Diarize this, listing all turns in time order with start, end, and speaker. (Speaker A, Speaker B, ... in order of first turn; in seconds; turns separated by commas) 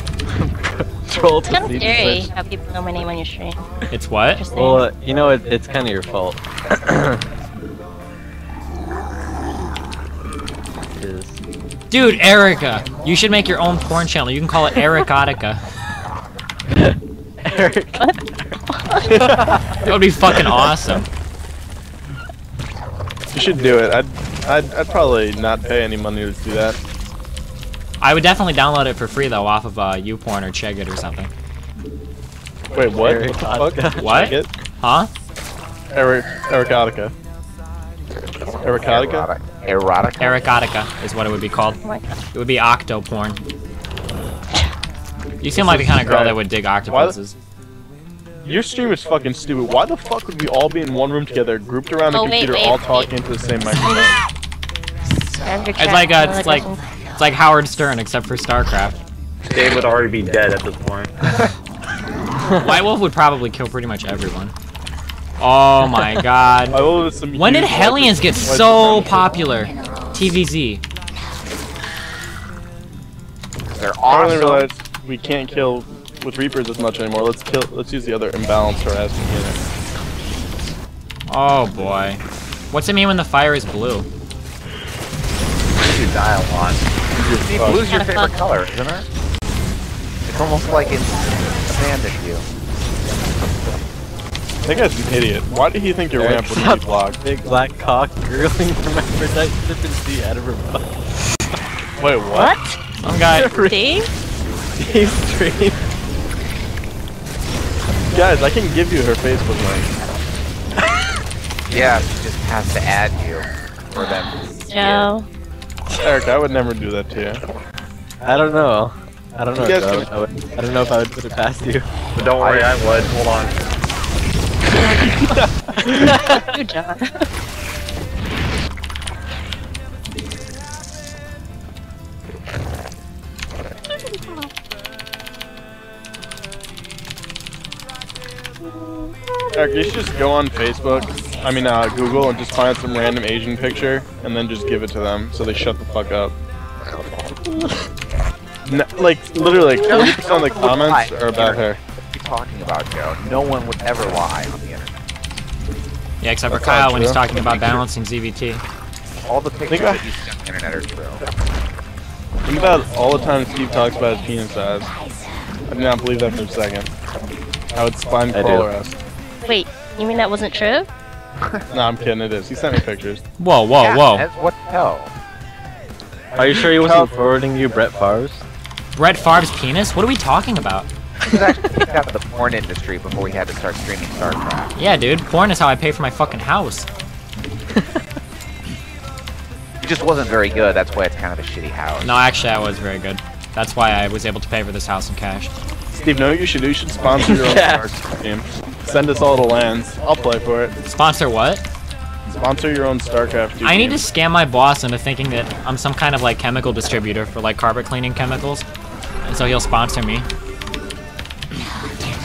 Speaker A: 0.3-2.3, Speaker B: 1.5-3.7, Speaker C: 3.9-4.4, Speaker B: 4.3-4.9, Speaker A: 4.5-7.2, Speaker A: 11.0-11.4, Speaker C: 11.9-15.6, Speaker A: 16.7-18.0, Speaker B: 18.7-19.2, Speaker A: 19.2-19.7, Speaker C: 19.9-21.1, Speaker D: 23.3-26.8, Speaker C: 28.0-31.3, Speaker D: 32.7-34.5, Speaker A: 32.7-34.4, Speaker C: 34.0-35.1, Speaker D: 35.9-37.1, Speaker D: 38.6-39.3, Speaker E: 38.8-40.5, Speaker C: 40.2-41.8, Speaker B: 41.8-42.2, Speaker C: 42.3-43.4, Speaker C: 45.4-47.4, Speaker D: 45.5-47.2, Speaker D: 48.4-54.2, Speaker B: 52.1-53.1, Speaker B: 53.8-54.1, Speaker B: 55.4-56.8, Speaker C: 55.8-59.0, Speaker F: 59.5-61.1, Speaker C: 62.6-64.5, Speaker C: 65.4-66.8, Speaker A: 65.8-66.1, Speaker D: 66.7-69.3, Speaker C: 67.3-70.8, Speaker E: 73.7-74.7, Speaker D: 74.1-79.6, Speaker C: 81.3-84.1, Speaker F: 85.8-86.8, Speaker D: 87.2-87.8, Speaker E: 87.4-89.0, Speaker B: 87.7-88.5, Speaker E: 90.3-92.5, Speaker D: 94.7-97.2, Speaker A: 96.2-100.9, Speaker D: 102.0-102.6, Speaker B: 102.3-102.7, Speaker C: 103.0-103.5, Speaker A: 103.3-103.8, Speaker B: 103.6-104.1, Speaker A: 104.8-105.8, Speaker D: 108.1-109.9, Speaker E: 111.7-115.1, Speaker B: 114.7-115.3, Speaker D: 116.0-117.4, Speaker A: 118.2-121.8, Speaker D: 119.5-120.1, Speaker F: 122.2-123.6, Speaker E: 122.4-122.7, Speaker D: 124.9-126.1, Speaker A: 125.9-126.4, Speaker B: 126.1-127.2, Speaker D: 139.5-146.3, Speaker D: 148.7-151.8, Speaker E: 149.8-154.9, Speaker C: 156.2-158.6, Speaker D: 156.5-157.8, Speaker E: 159.2-161.2, Speaker D: 159.7-160.1, Speaker D: 162.4-164.9, Speaker D: 165.7-166.9, Speaker D: 167.7-169.0, Speaker A: 168.3-168.7, Speaker B: 169.4-170.9, Speaker D: 171.7-173.2, Speaker C: 173.4-174.3, Speaker E: 173.8-175.2, Speaker A: 176.3-178.4, Speaker D: 176.8-177.1, Speaker C: 178.9-180.9, Speaker E: 181.2-184.7, Speaker C: 184.7-186.9, Speaker E: 189.8-192.1, Speaker C: 192.0-195.5, Speaker D: 195.9-200.7, Speaker A: 197.2-197.9, Speaker C: 200.8-201.6, Speaker D: 202.3-204.0, Speaker C: 203.6-208.7, Speaker C: 209.2-210.3